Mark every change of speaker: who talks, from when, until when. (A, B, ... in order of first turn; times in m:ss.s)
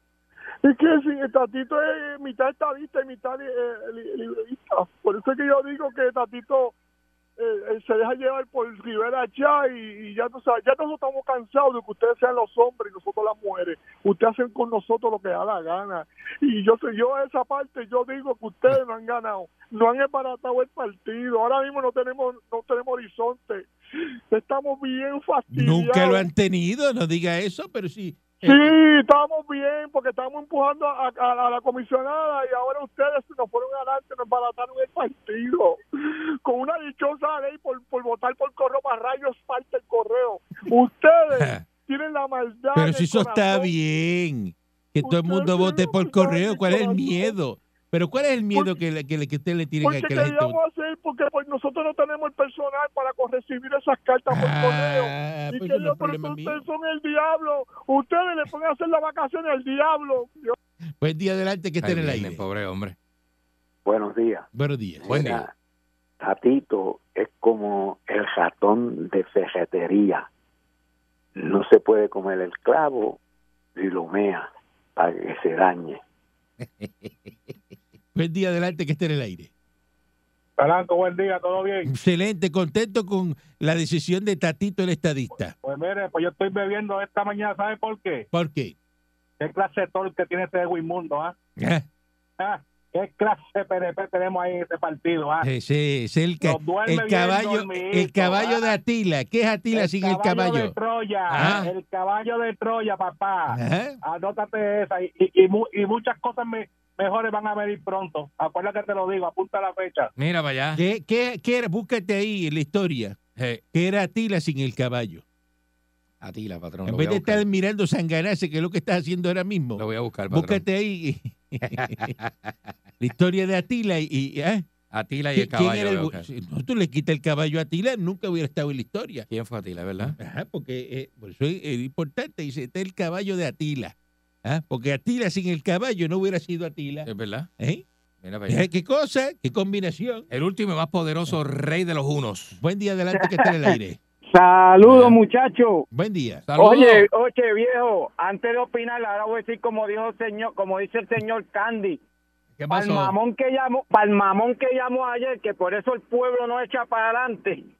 0:00.6-0:06.7 A
0:07.4-0:23.7 A
0:24.3-0:26.3 A
0:25.5-0:28.7 B
0:28.4-0:43.7 A
0:41.3-0:41.6 B
0:42.7-0:50.6 B
0:45.0-0:47.4 A
0:49.8-1:00.5 A
0:54.3-0:56.6 B
1:01.0-1:02.4 B
1:01.8-1:03.0 C
1:03.8-1:04.5 D
1:04.5-1:05.1 B
1:05.0-1:05.5 D
1:05.1-1:05.4 C
1:06.2-1:10.2 D
1:11.4-1:13.2 D
1:13.8-1:16.0 D
1:18.1-1:19.5 B
1:20.6-1:21.9 E
1:21.8-1:25.6 B
1:25.6-1:28.2 E
1:28.3-1:28.7 B
1:29.4-1:31.3 E
1:31.6-1:31.8 B
1:32.4-1:35.5 E
1:35.4-1:40.7 B
1:36.4-1:38.7 E
1:39.7-1:50.1 E
1:41.3-1:41.7 C
1:41.3-1:41.7 B
1:43.5-1:44.0 B
1:50.2-1:50.8 C
1:50.7-1:53.2 B
1:53.4-1:53.6 C
1:53.7-1:55.2 B
1:56.2-1:57.4 C
1:56.8-2:02.1 B
1:59.8-2:00.6 C
2:01.6-2:02.5 C
2:03.0-2:04.6 B
2:04.9-2:06.3 C
2:05.3-2:09.2 B
2:09.3-2:10.2 C
2:10.2-2:17.8 B
2:17.0-2:17.5 C
2:18.2-2:18.6 C
2:18.5-2:20.3 B
2:20.3-2:22.6 C
2:22.6-2:24.0 B
2:23.2-2:23.7 F
2:24.3-2:25.8 F
2:24.8-2:25.2 C
2:25.9-2:26.4 B
2:26.5-2:27.0 C
2:26.6-2:32.0 F
2:32.6-2:33.1 C
2:32.7-2:37.6 F